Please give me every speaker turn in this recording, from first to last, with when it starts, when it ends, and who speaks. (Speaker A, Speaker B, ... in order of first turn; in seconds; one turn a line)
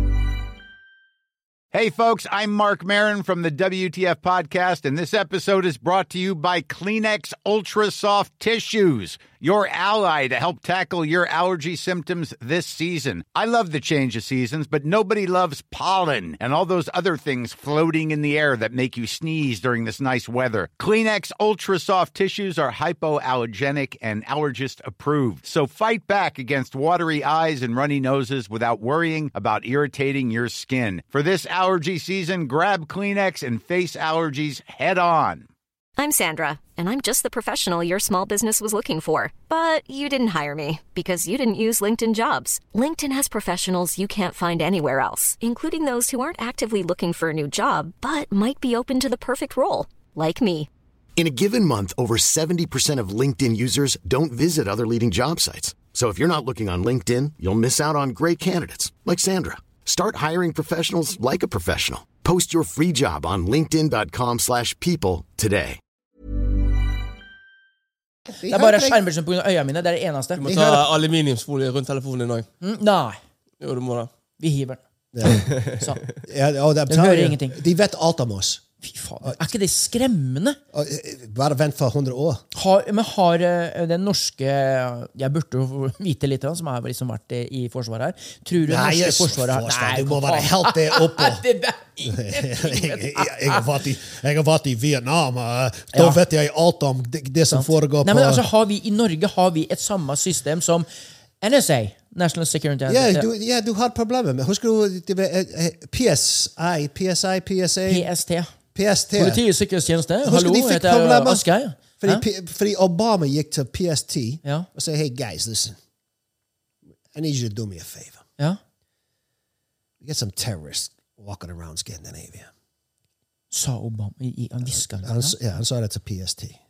Speaker A: 1.7-35.5
Speaker B: 36.0-50.7
Speaker C: 51.2-65.8
Speaker D: 68.4-69.0
Speaker E: 68.5-70.5
Speaker F: 70.3-72.5
Speaker E: 72.6-73.2
Speaker F: 73.6-74.1
Speaker E: 74.4-76.0
Speaker D: 75.1-75.5
Speaker F: 75.5-75.8
Speaker D: 76.2-78.6
Speaker E: 76.9-77.6
Speaker E: 78.8-80.6
Speaker D: 80.7-82.4
Speaker E: 82.5-93.7
Speaker D: 88.6-91.4
Speaker D: 92.0-98.4
Speaker E: 95.9-96.2
Speaker E: 97.5-100.8
Speaker E: 101.4-103.3
Speaker D: 102.9-108.1
Speaker E: 107.9-108.5
Speaker D: 108.7-109.4
Speaker E: 109.1-112.2
Speaker D: 110.2-111.5
Speaker D: 112.0-115.8
Speaker D: 117.1-118.2
Speaker D: 120.0-122.5
Speaker E: 123.5-125.3
Speaker D: 125.0-126.6